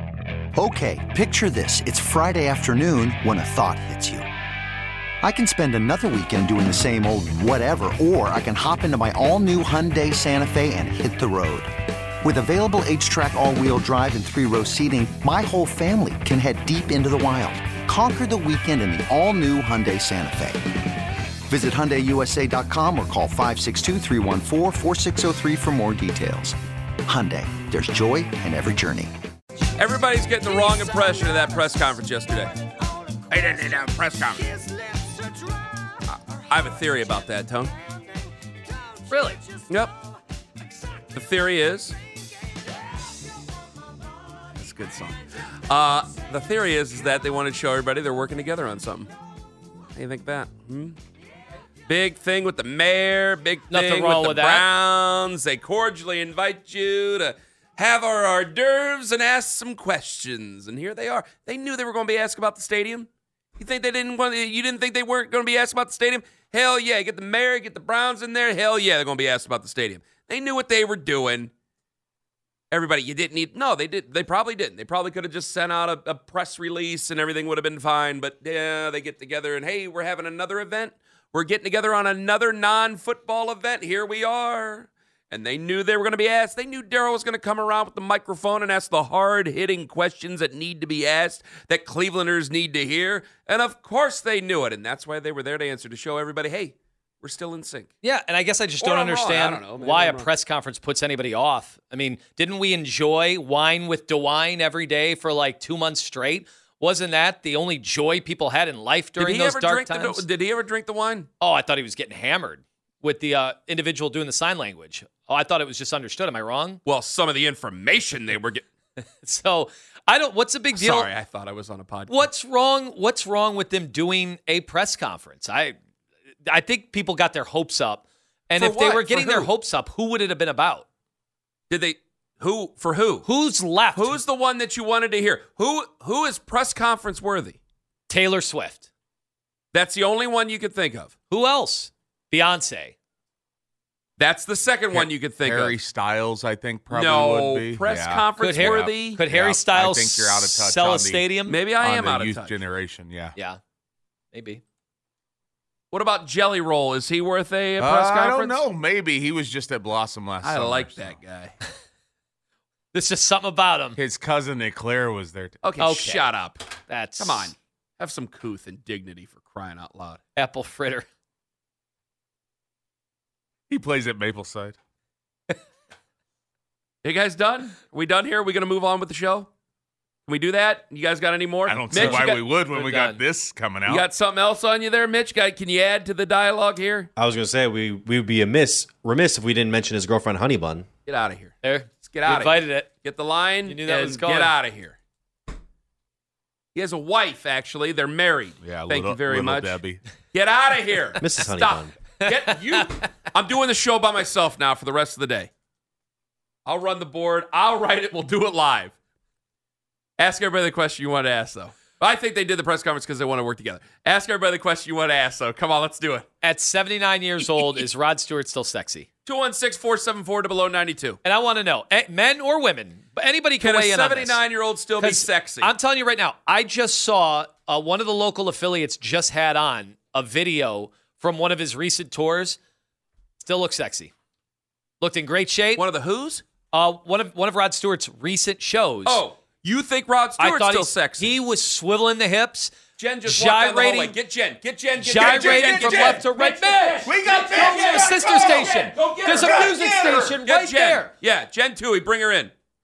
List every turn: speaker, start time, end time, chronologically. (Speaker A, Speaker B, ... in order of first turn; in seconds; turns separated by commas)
Speaker A: 0.6-4.3, Speaker A: 5.2-20.8, Speaker A: 21.5-29.1, Speaker B: 29.8-32.5, Speaker B: 33.3-34.5, Speaker B: 36.1-37.7, Speaker C: 39.1-39.4, Speaker B: 39.7-39.9, Speaker B: 41.1-42.0, Speaker B: 44.6-49.1, Speaker B: 50.0-51.0, Speaker B: 51.9-71.5, Speaker C: 53.7-54.7, Speaker B: 72.7-97.9, Speaker C: 98.0-110.2, Speaker B: 98.8-100.3, Speaker B: 109.2-111.3, Speaker C: 111.4-116.8, Speaker B: 116.9-118.6, Speaker C: 119.2-121.1, Speaker B: 120.7-122.3, Speaker C: 122.1-125.8, Speaker C: 126.5-130.9, Speaker B: 128.6-129.5, Speaker B: 131.7-133.3, Speaker C: 133.2-134.2, Speaker B: 133.9-137.6, Speaker C: 138.1-138.8, Speaker B: 139.7-141.1, Speaker C: 141.3-142.9, Speaker B: 144.2-145.8, Speaker D: 144.9-151.3, Speaker B: 146.9-149.2, Speaker C: 148.4-151.6, Speaker B: 151.5-152.6, Speaker D: 151.8-153.3, Speaker C: 154.3-154.6, Speaker B: 155.9-158.6, Speaker D: 157.8-161.2, Speaker B: 160.4-161.6, Speaker C: 162.9-164.0, Speaker D: 164.0-165.6, Speaker B: 165.6-170.2, Speaker C: 165.8-166.3, Speaker C: 166.9-167.5, Speaker C: 170.4-171.1, Speaker D: 173.7-174.8, Speaker B: 177.0-179.5, Speaker B: 180.3-182.3, Speaker D: 181.7-184.1, Speaker C: 181.9-183.2, Speaker B: 183.9-187.1, Speaker E: 187.2-190.9, Speaker B: 191.1-195.0, Speaker C: 191.6-192.9, Speaker C: 193.7-194.6, Speaker B: 196.8-199.8, Speaker D: 198.6-200.0, Speaker B: 200.3-205.5, Speaker E: 201.2-201.9, Speaker C: 202.2-202.6, Speaker B: 206.7-208.9, Speaker B: 210.2-216.3, Speaker C: 216.4-219.1, Speaker B: 219.2-221.2, Speaker C: 221.2-224.4, Speaker B: 223.6-225.7, Speaker C: 225.0-232.6, Speaker C: 233.4-234.1, Speaker C: 235.0-235.8, Speaker B: 235.8-236.4, Speaker C: 236.7-239.2, Speaker B: 239.1-241.3, Speaker C: 240.4-242.7, Speaker B: 243.0-252.5, Speaker C: 243.2-244.2, Speaker C: 245.0-251.1, Speaker D: 245.2-246.2, Speaker D: 247.1-248.6, Speaker D: 249.4-250.4